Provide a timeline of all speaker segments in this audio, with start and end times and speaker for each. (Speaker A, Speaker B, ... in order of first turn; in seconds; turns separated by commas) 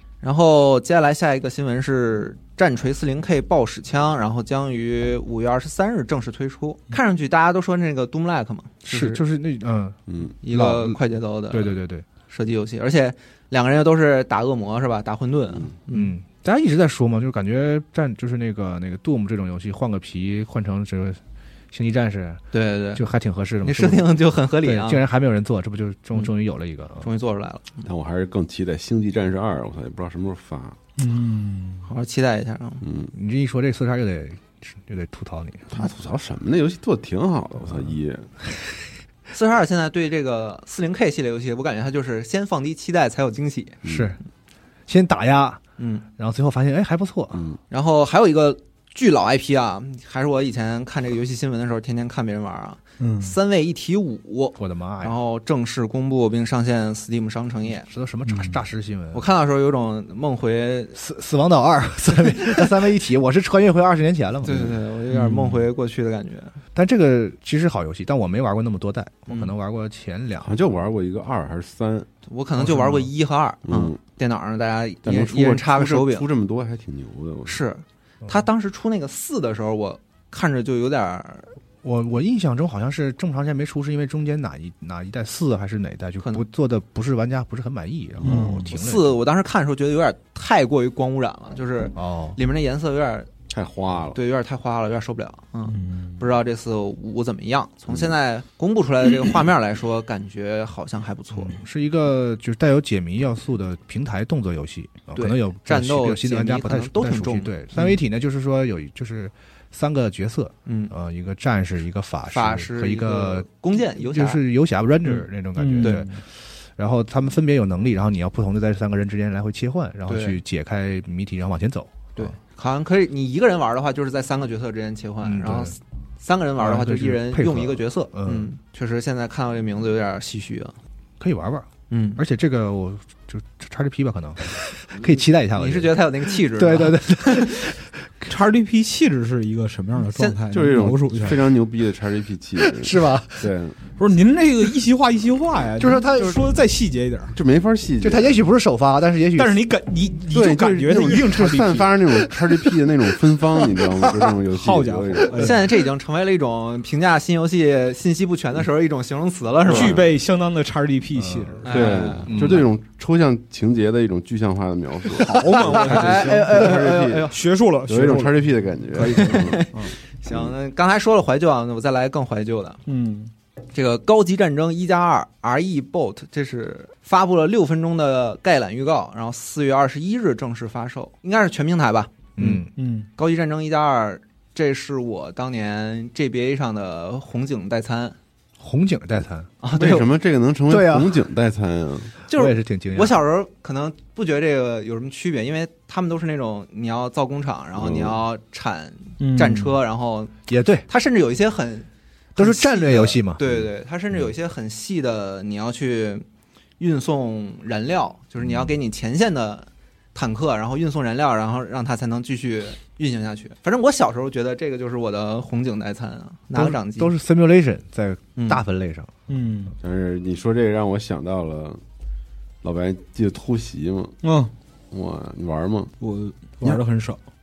Speaker A: 0.2-9.2, Speaker B: 8.9-11.0, Speaker C: 10.1-10.4, Speaker A: 10.4-11.8, Speaker B: 11.5-12.1, Speaker A: 12.3-16.1, Speaker B: 15.9-21.2, Speaker B: 21.7-27.1, Speaker A: 22.5-23.0, Speaker A: 23.6-25.0, Speaker A: 27.0-27.9, Speaker C: 27.9-30.8, Speaker D: 31.0-31.9, Speaker A: 31.9-32.8, Speaker C: 32.8-33.1, Speaker B: 33.1-35.7, Speaker C: 35.7-38.3, Speaker A: 39.3-43.8, Speaker C: 43.8-44.1, Speaker B: 43.8-44.2, Speaker B: 44.9-45.6, Speaker A: 45.8-46.0, Speaker B: 46.2-47.4, Speaker C: 47.3-47.6, Speaker A: 47.7-57.9, Speaker D: 53.0-53.4, Speaker B: 54.6-55.2, Speaker B: 57.7-59.3, Speaker D: 58.3-58.6, Speaker A: 59.1-61.0, Speaker B: 61.0-64.7, Speaker A: 64.4-66.5, Speaker C: 64.5-64.7, Speaker D: 65.1-65.7, Speaker B: 66.8-70.6, Speaker C: 70.4-72.1, Speaker A: 72.3-76.3, Speaker B: 72.7-73.1, Speaker C: 73.7-74.0, Speaker C: 75.0-77.6, Speaker A: 77.5-81.5, Speaker B: 81.8-89.2, Speaker D: 88.2-88.7, Speaker A: 88.2-93.3, Speaker B: 92.0-92.4, Speaker C: 93.5-94.2, Speaker A: 94.1-101.6, Speaker D: 95.7-96.2, Speaker B: 101.4-122.3, Speaker A: 105.1-108.0, Speaker A: 110.7-110.9, Speaker A: 112.3-114.4, Speaker D: 115.6-116.2, Speaker A: 115.8-116.0, Speaker A: 120.1-120.4, Speaker A: 122.2-130.8, Speaker B: 125.2-125.8, Speaker B: 126.6-128.5, Speaker B: 131.2-138.3, Speaker A: 131.9-132.2, Speaker A: 135.6-137.5, Speaker D: 138.3-141.5, Speaker A: 140.1-140.4, Speaker C: 140.5-143.8, Speaker B: 142.8-143.5, Speaker D: 144.0-147.4, Speaker B: 145.8-146.5, Speaker C: 147.3-148.4, Speaker B: 148.0-149.7, Speaker D: 149.4-152.3, Speaker C: 150.3-155.6, Speaker D: 154.5-155.7, Speaker A: 155.4-160.0, Speaker C: 159.7-160.1, Speaker D: 159.7-162.2, Speaker B: 161.2-161.6, Speaker A: 161.7-162.6, Speaker C: 161.7-169.7, Speaker B: 162.3-162.7, Speaker D: 165.2-169.9, Speaker A: 165.6-167.3, Speaker A: 169.2-172.8, Speaker C: 170.3-170.5, Speaker D: 172.9-173.3, Speaker A: 173.7-182.1, Speaker B: 182.4-182.7, Speaker D: 182.4-183.1, Speaker A: 183.2-188.2, Speaker B: 188.6-189.5, Speaker A: 189.6-190.1, Speaker C: 189.7-192.1, Speaker B: 190.7-191.2, Speaker A: 192.3-200.3, Speaker B: 192.3-193.2, Speaker C: 197.8-198.2, Speaker D: 199.2-199.8, Speaker B: 200.5-200.9, Speaker A: 200.9-206.2, Speaker B: 202.4-203.4, Speaker A: 206.8-217.1, Speaker B: 216.5-219.1, Speaker A: 218.4-218.6, Speaker D: 219.3-219.8, Speaker C: 219.8-221.8, Speaker C: 222.6-224.2, Speaker D: 224.2-224.5, Speaker C: 224.9-225.9, Speaker D: 226.0-227.2